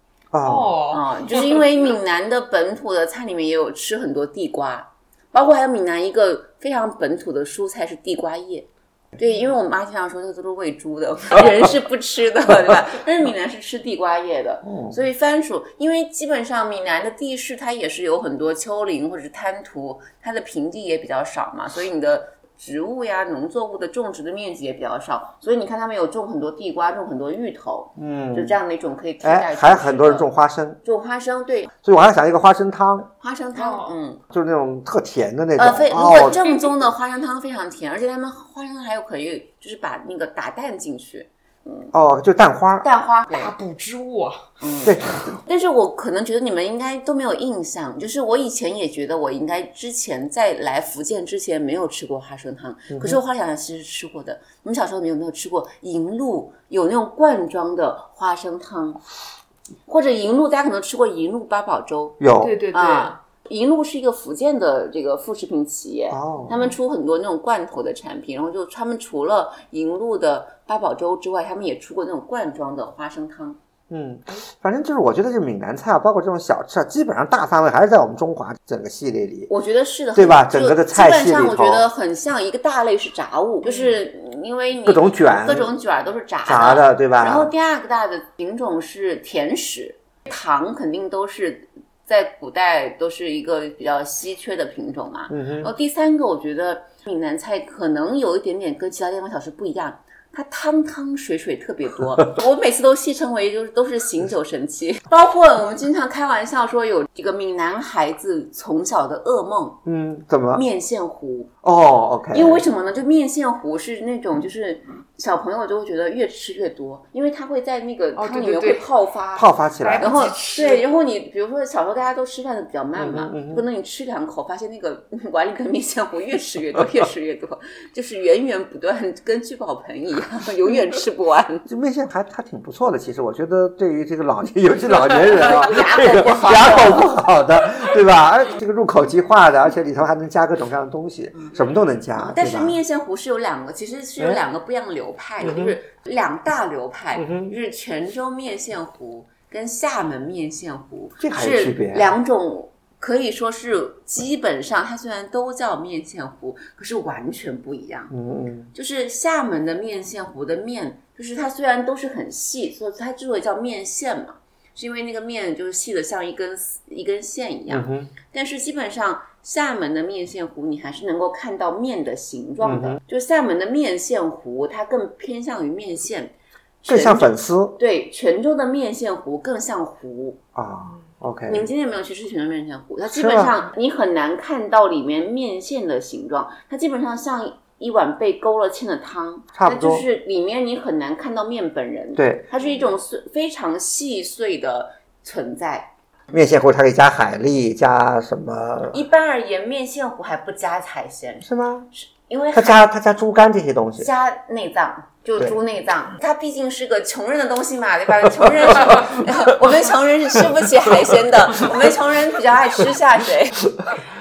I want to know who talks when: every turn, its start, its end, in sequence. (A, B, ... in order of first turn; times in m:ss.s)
0:00.3-0:00.8 A
0:00.4-0:01.7 B
0:00.9-0:30.3 C
0:14.6-0:15.0 A
0:28.0-0:28.6 A
0:29.2-0:30.8 A
0:30.8-0:31.7 C
0:31.8-0:33.1 A
0:33.2-0:34.2 C
0:33.6-0:34.0 B
0:34.3-0:36.4 A
0:35.6-0:41.9 C
0:41.9-0:42.9 A
0:42.8-0:43.5 C
0:43.3-0:44.5 B
0:44.6-0:59.0 C
0:44.8-0:45.4 A
0:52.9-0:53.2 A
0:59.9-1:13.6 C
1:02.2-1:02.6 A
1:02.4-1:03.2 B
1:06.1-1:06.6 A
1:06.5-1:06.8 B
1:13.9-1:19.5 A
1:19.5-1:49.8 C
1:20.2-1:21.9 A
1:23.6-1:24.0 B
1:24.8-1:25.7 A
1:26.4-1:27.5 A
1:35.3-1:35.7 A
1:49.8-1:50.6 A
1:50.5-1:51.5 C
1:51.6-1:52.6 A
1:52.3-1:59.5 C
1:58.2-1:58.9 B
1:59.4-2:00.2 A
1:59.8-2:00.8 B
2:00.0-2:11.7 C
2:03.0-2:03.6 A
2:11.7-2:22.8 A
2:15.3-2:17.1 C
2:21.4-2:21.6 C
2:22.2-2:38.1 C
2:25.4-2:25.8 A
2:27.2-2:27.6 A
2:31.2-2:32.1 A
2:38.1-2:38.7 A
2:38.7-3:00.4 C
2:47.7-2:48.1 A
2:52.6-2:53.0 A
2:56.9-2:57.8 A
3:00.6-3:01.7 A
3:00.8-3:01.1 B
3:01.5-3:15.9 C
3:03.1-3:03.6 A
3:09.5-3:10.0 A
3:12.2-3:12.5 A
3:12.6-3:12.9 B
3:16.3-3:19.0 A
3:18.9-3:22.9 C
3:21.4-3:21.9 A
3:22.5-3:24.1 A
3:24.0-3:33.6 C
3:28.4-3:29.2 A
3:31.1-3:31.9 A
3:33.7-3:34.0 A